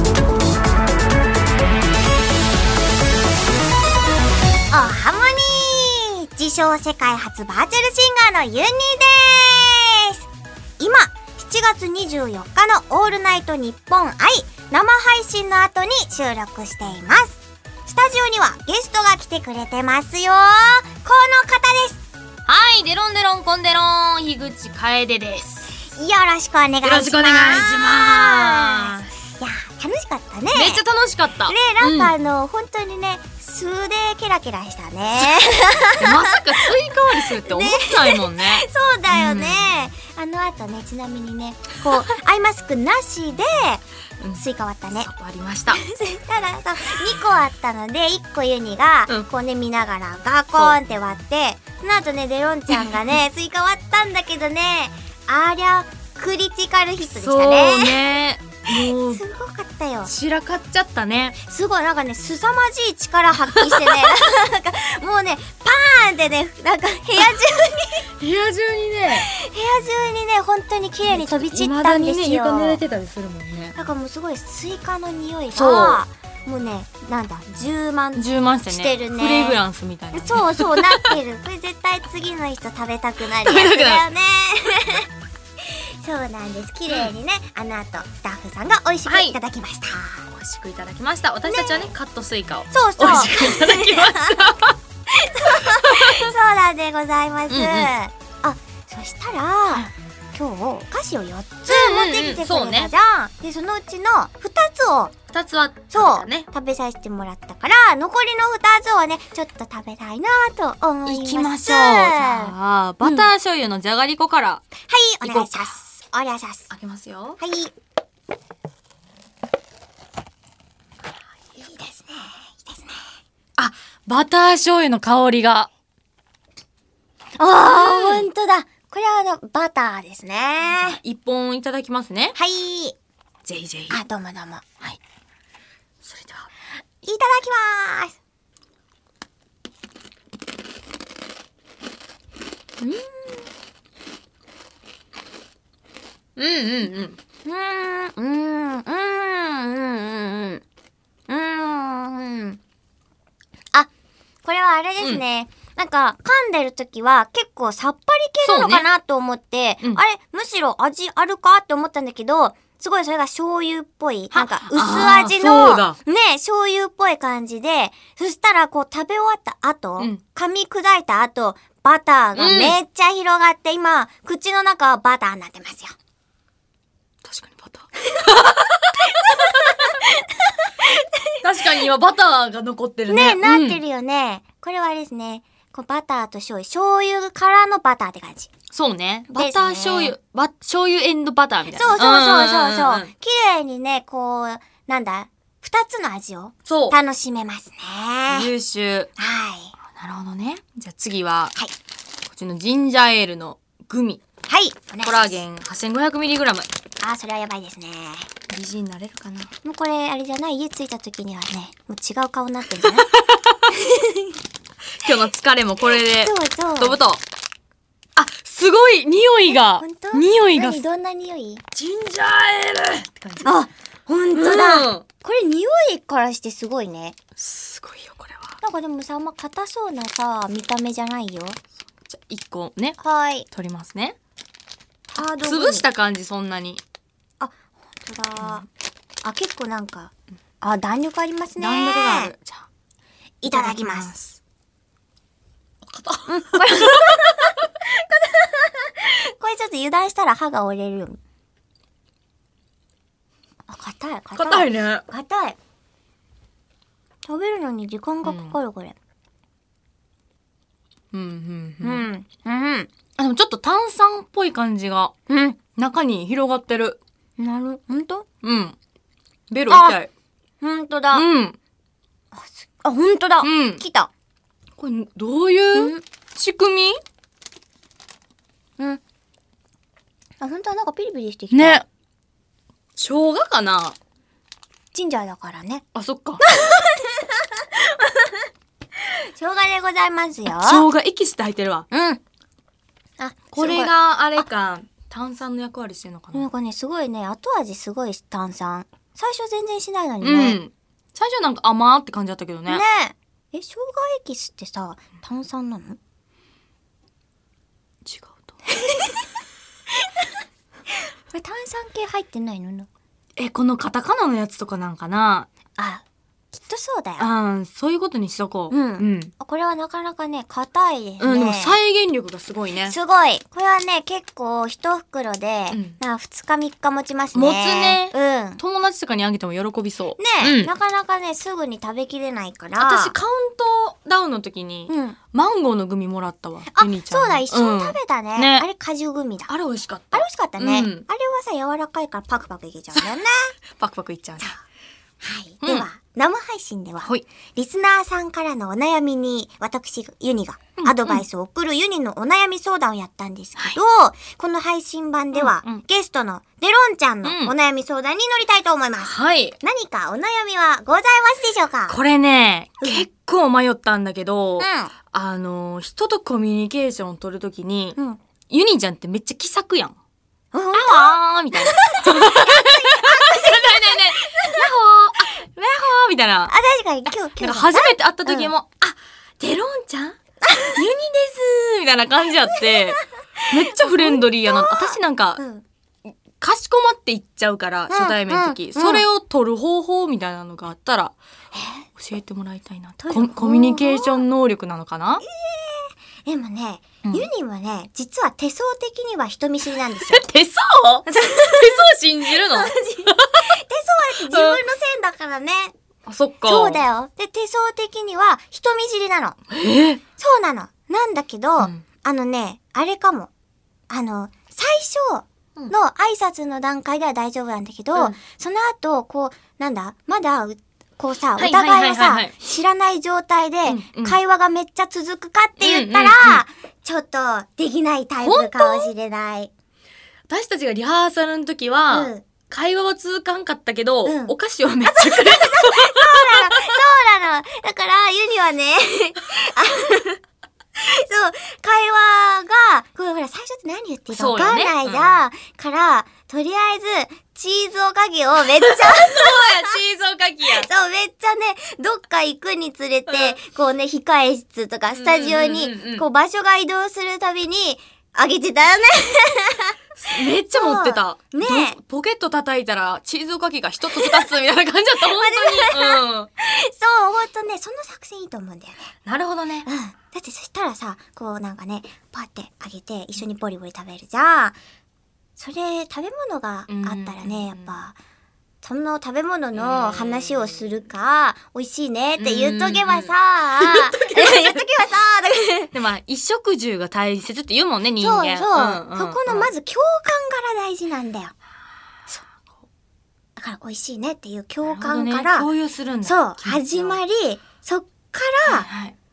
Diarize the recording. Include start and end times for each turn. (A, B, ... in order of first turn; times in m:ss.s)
0:04.7-0:10.2 A
0:10.8-0:22.0 A
0:22.5-0:25.7 B
0:25.8-0:30.8 A
0:26.8-0:29.1 B
0:30.5-0:32.1 B
0:31.5-0:45.1 A
0:36.0-0:39.7 B
0:45.0-0:45.8 B
0:45.7-0:58.0 A
0:52.7-0:53.0 B
0:57.0-0:59.2 B
0:58.7-1:00.1 A
1:00.1-1:01.4 B
1:01.4-1:08.1 A
1:03.5-1:04.1 B
1:08.2-1:09.3 B
1:09.1-1:12.8 A
1:11.1-1:13.8 B
1:13.8-1:19.6 A
1:15.5-1:16.0 B
1:18.2-1:21.2 B
1:20.1-1:25.1 A
1:23.3-1:24.0 B
1:25.6-1:30.3 A
1:26.9-1:27.1 B
1:29.1-1:29.4 B
1:30.3-1:34.8 B
1:31.5-1:31.9 A
1:32.7-1:34.4 A
1:35.1-1:45.1 A
1:35.4-1:36.3 B
1:37.5-1:37.9 B
1:41.7-1:42.9 B
1:45.3-1:46.5 B
1:45.9-1:53.3 A
1:51.1-1:54.6 B
1:54.9-1:56.7 A
1:55.2-1:55.7 B
1:56.7-1:57.4 B
1:57.4-1:57.7 A
2:01.6-2:03.1 A
2:03.6-2:05.7 B
2:07.4-2:11.0 A
2:07.6-2:08.3 B
2:10.6-2:12.4 B
2:12.3-2:13.0 A
2:13.4-2:14.0 B
2:13.9-2:14.6 A
2:16.0-2:16.5 B
2:17.0-2:18.2 A
2:22.8-2:23.5 A
2:26.4-2:27.2 B
2:27.4-2:30.6 A
2:31.3-2:32.6 A
2:34.4-2:55.9 A
2:38.4-2:38.8 B
2:44.3-2:46.0 B
2:52.4-2:52.8 B
2:57.2-2:59.9 B
2:59.1-3:01.4 A
3:01.4-3:03.8 B
3:03.1-3:08.5 A
3:08.7-3:13.1 B
3:09.3-3:10.2 A
3:11.7-3:18.5 A
3:16.7-3:17.0 B
3:18.3-3:19.1 B
3:19.2-3:19.8 A
3:19.9-3:21.5 B
3:22.3-3:24.2 B
3:24.5-3:25.4 A
3:25.0-3:26.7 B
3:27.0-3:28.3 A
3:28.5-3:29.5 B
3:29.6-3:33.1 A
3:33.1-3:33.6 B
3:33.7-3:34.4 A
3:35.0-3:37.2 B
3:36.2-3:37.0 A
3:38.2-3:40.8 B
3:39.5-3:41.6 A
3:41.7-3:43.5 B
3:43.4-3:47.2 A
3:44.4-3:45.0 B
3:47.4-3:48.6 B
3:48.6-3:51.6 A
3:52.0-3:53.0 B
3:53.0-3:53.5 A
3:53.5-3:54.2 B
3:55.1-3:55.9 A
3:55.2-3:56.8 B
3:57.4-3:58.6 A
3:59.2-4:02.3 A
4:01.6-4:02.7 B
4:03.4-4:04.1 A
4:03.5-4:04.4 B
4:05.8-4:07.4 B
4:06.3-4:11.2 A
4:13.7-4:15.6 A
4:14.4-4:15.0 B
4:17.3-4:19.0 A
4:18.2-4:18.6 B
4:21.1-4:22.1 B
4:21.8-4:22.9 A
4:23.2-4:25.1 B
4:25.3-4:25.6 A
4:25.8-4:27.0 B
4:27.4-4:28.3 A
4:28.4-4:28.8 B
4:29.5-4:30.1 B
4:29.7-4:30.0 A
4:30.6-4:31.3 A
4:31.1-4:31.6 B
4:32.3-4:34.1 A
4:33.4-4:33.8 B
4:34.8-4:37.0 B
4:35.7-4:36.0 A
4:40.4-4:41.8 A
4:41.5-4:41.8 B
4:43.0-4:44.0 B
4:44.9-4:45.8 A
4:45.9-4:46.4 B
4:46.4-4:48.5 A
4:49.0-4:50.8 A
4:50.5-4:51.9 B
4:51.9-4:52.2 A
4:53.2-4:54.5 A
4:53.5-4:56.5 B
4:56.3-5:00.6 A
5:00.2-5:02.8 B
5:02.7-5:06.0 A
5:08.0-5:08.5 B
5:08.7-5:09.2 A
5:11.3-5:12.9 A
5:13.4-5:15.5 B
5:15.8-5:16.0 A
5:16.6-5:17.3 A
5:17.2-5:19.3 B
5:18.7-5:21.8 A
5:21.2-5:23.0 B
5:22.9-5:28.6 A
5:25.7-5:26.0 B
5:27.3-5:30.7 B
5:30.2-5:33.2 A
5:32.8-5:38.7 B
5:34.9-5:35.2 A
5:36.7-5:39.5 A
5:39.5-5:41.1 B
5:40.1-5:43.6 A
5:43.8-5:44.6 B
5:45.2-6:02.0 A
5:45.6-5:45.9 B
5:50.8-5:51.2 B
5:55.3-5:55.8 B
5:57.2-5:57.6 B
5:59.0-5:59.6 B
6:01.9-6:08.0 B
6:04.6-6:04.9 A
6:08.5-6:10.0 B
6:10.5-6:14.6 A
6:10.7-6:16.5 B
6:16.5-6:18.5 A
6:17.4-6:20.2 B
6:20.4-6:20.8 A
6:20.7-6:25.4 B
6:23.4-6:25.6 A
6:26.1-6:31.2 B
6:27.9-6:29.1 A
6:31.5-6:31.9 A
6:32.0-6:35.2 B
6:33.0-6:34.2 A
6:35.2-6:40.2 A
6:40.0-6:43.6 B
6:41.1-6:45.7 A
6:44.2-6:44.6 B
6:46.1-6:46.8 B
6:46.4-6:49.4 A
6:49.5-6:50.0 B
6:50.2-6:53.3 A
6:53.9-7:09.5 A
7:01.4-7:02.4 B
7:03.6-7:04.2 B
7:05.6-7:06.4 B
7:08.2-7:08.9 B
7:10.3-7:16.8 B
7:11.9-7:12.2 A
7:14.0-7:14.4 A
7:14.9-7:20.2 A
7:20.8-7:29.8 A
7:24.1-7:25.2 B
7:28.4-7:30.7 B
7:30.5-7:41.8 A
7:33.1-7:33.4 B
7:34.9-7:36.0 B
7:40.0-7:46.3 B
7:43.9-7:44.2 A
7:45.0-7:48.9 A
7:49.1-7:49.7 B
7:49.6-7:54.6 A
7:55.4-7:58.0 A
7:56.7-7:57.8 B
7:58.6-8:05.7 A
7:59.5-8:00.6 B
8:02.2-8:04.6 B
8:05.7-8:09.5 B
8:08.0-8:11.3 A
8:12.2-8:12.5 B
8:13.4-8:15.5 A
8:14.6-8:17.0 B
8:16.0-8:18.7 A
8:18.4-8:19.0 B